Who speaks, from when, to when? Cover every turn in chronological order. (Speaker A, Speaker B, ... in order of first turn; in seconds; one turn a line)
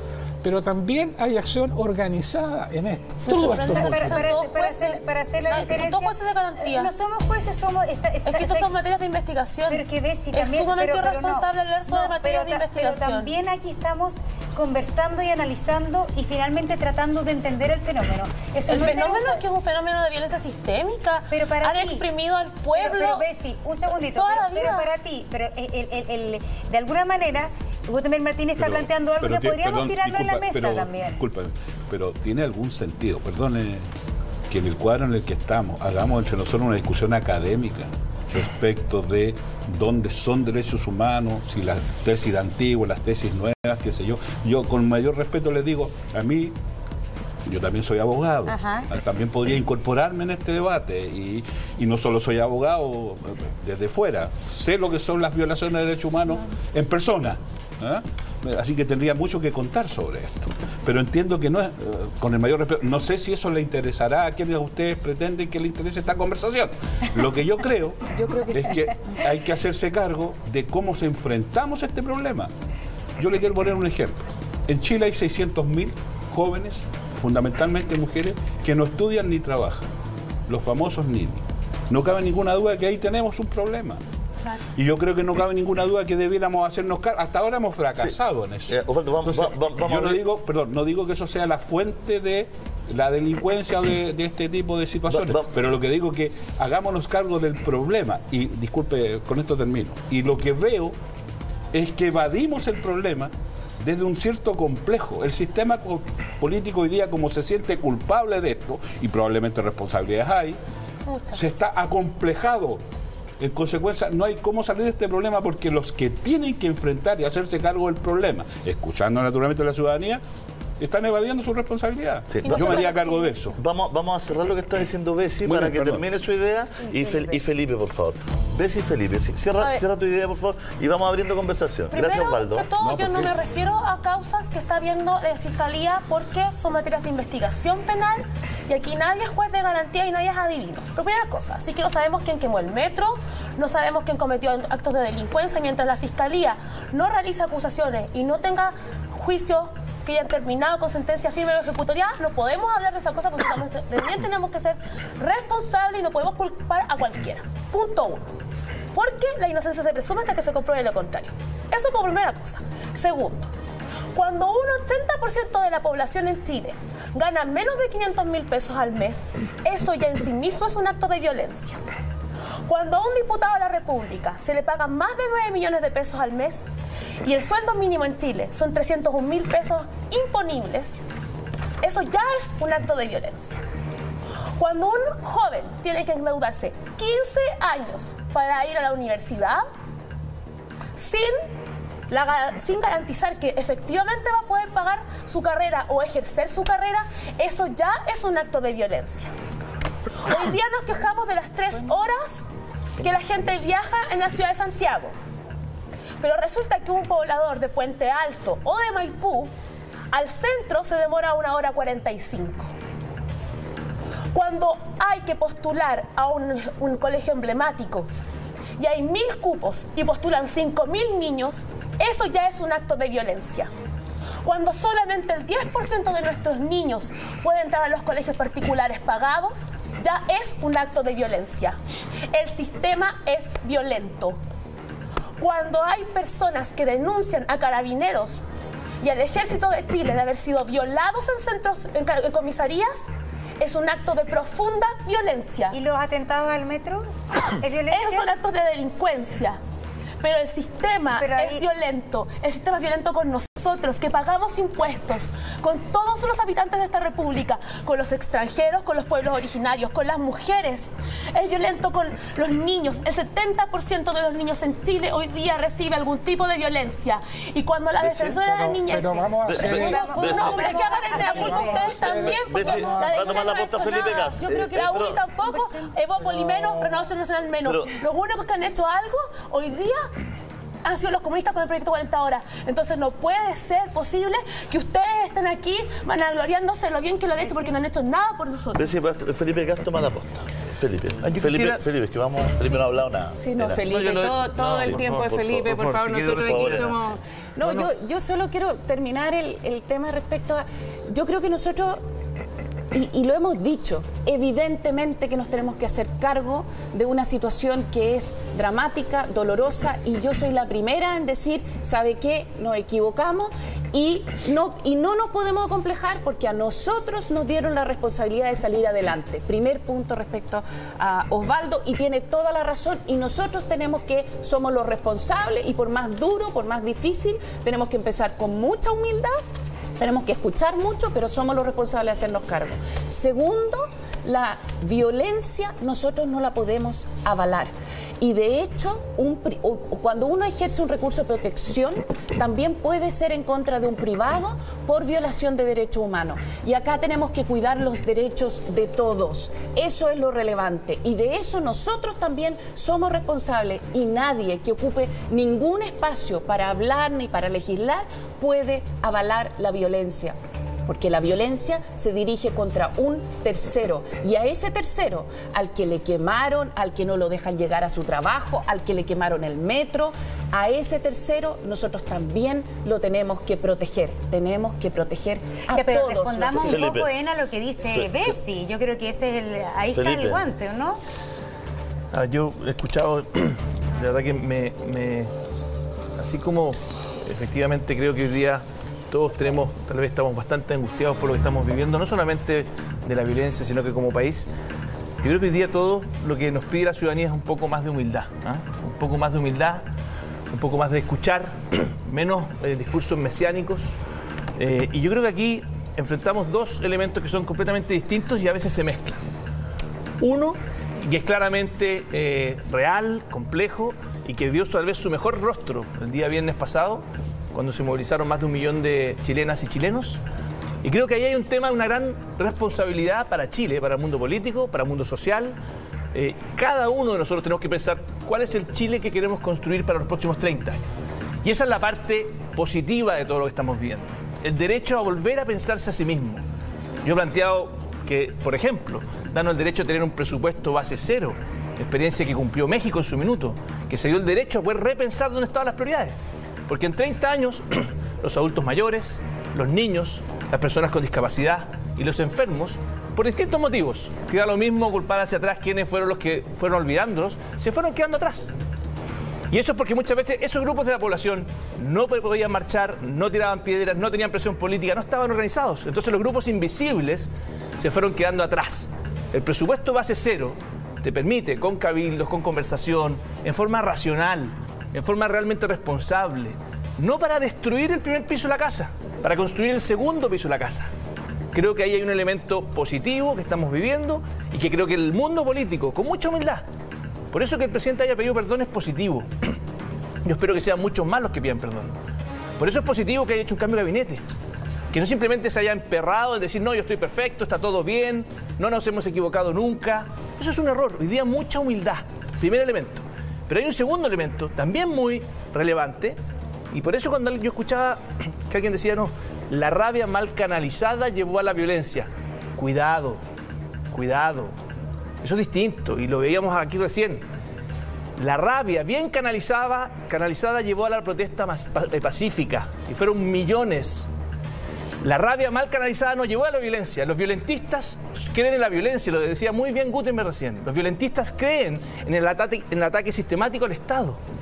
Speaker A: 0.4-4.2
Speaker B: 3.2-6.9
Speaker C: 3.6-8.7
Speaker B: 8.2-13.3
Speaker C: 9.7-19.4
Speaker B: 18.6-23.2
Speaker C: 21.3-22.0
Speaker C: 22.8-31.2
Speaker B: 24.0-24.9
Speaker D: 28.6-33.9
Speaker D: 34.5-46.5
Speaker D: 47.5-72.5
Speaker C: 48.5-48.9
Speaker D: 73.2-79.9
Speaker D: 80.5-84.0
Speaker D: 84.7-100.9
Speaker E: 88.7-90.2
Speaker E: 95.1-95.5
Speaker D: 101.7-110.6
Speaker B: 111.1-111.4
Speaker D: 111.3-112.8
Speaker D: 113.4-120.2
Speaker D: 120.8-123.6
Speaker E: 122.3-122.8
Speaker B: 122.5-123.4
Speaker E: 123.6-132.7
Speaker D: 125.4-126.0
Speaker B: 131.9-158.2
Speaker D: 132.8-133.3
Speaker B: 158.9-163.5
Speaker B: 164.1-171.8
Speaker B: 172.7-176.7
Speaker B: 177.2-181.0
Speaker B: 181.8-183.6
Speaker B: 184.6-189.6
Speaker B: 190.9-191.4
Speaker B: 192.1-199.3
Speaker B: 200.2-202.5
Speaker B: 203.0-205.1
Speaker B: 206.2-209.5
Speaker B: 210.1-212.7
Speaker B: 214.3-218.1
Speaker B: 218.8-223.7
Speaker B: 224.4-231.8
Speaker B: 232.3-234.4
Speaker B: 235.4-238.4
Speaker B: 239.0-243.1
Speaker B: 243.6-245.8
Speaker C: 245.7-248.3
Speaker B: 247.9-249.6
Speaker B: 250.2-280.1
Speaker C: 251.2-251.6
Speaker E: 268.0-268.4
Speaker A: 268.3-273.6
Speaker E: 269.4-270.7
Speaker C: 269.6-272.0
Speaker E: 272.1-275.2
Speaker F: 274.4-275.1
Speaker C: 275.5-275.8
Speaker A: 276.2-277.0
Speaker E: 277.6-277.9
Speaker B: 280.8-288.9
Speaker C: 287.4-287.7
Speaker E: 288.8-293.9
Speaker G: 291.2-291.8
Speaker F: 293.4-302.0
Speaker G: 293.8-297.0
Speaker E: 294.6-297.1
Speaker G: 297.6-297.9
Speaker F: 302.9-329.4
Speaker F: 330.0-377.0
Speaker C: 375.7-381.0
Speaker E: 376.5-377.1
Speaker E: 377.9-378.4
Speaker E: 379.9-380.4
Speaker G: 382.1-385.3
Speaker G: 386.2-394.5
Speaker G: 395.2-399.9
Speaker G: 400.5-403.9
Speaker G: 404.6-409.2
Speaker G: 410.2-420.2
Speaker G: 420.8-425.5
Speaker G: 426.1-430.8
Speaker G: 431.4-436.4
Speaker G: 437.0-446.1
Speaker G: 446.7-458.5
Speaker G: 459.5-480.9
Speaker G: 481.5-486.7
Speaker G: 487.3-489.3
Speaker G: 490.2-491.9
Speaker G: 492.6-494.2
Speaker G: 494.9-506.2
Speaker G: 506.7-513.2
Speaker G: 513.9-514.5
Speaker G: 515.2-517.2
Speaker G: 518.2-524.1
Speaker G: 525.0-534.2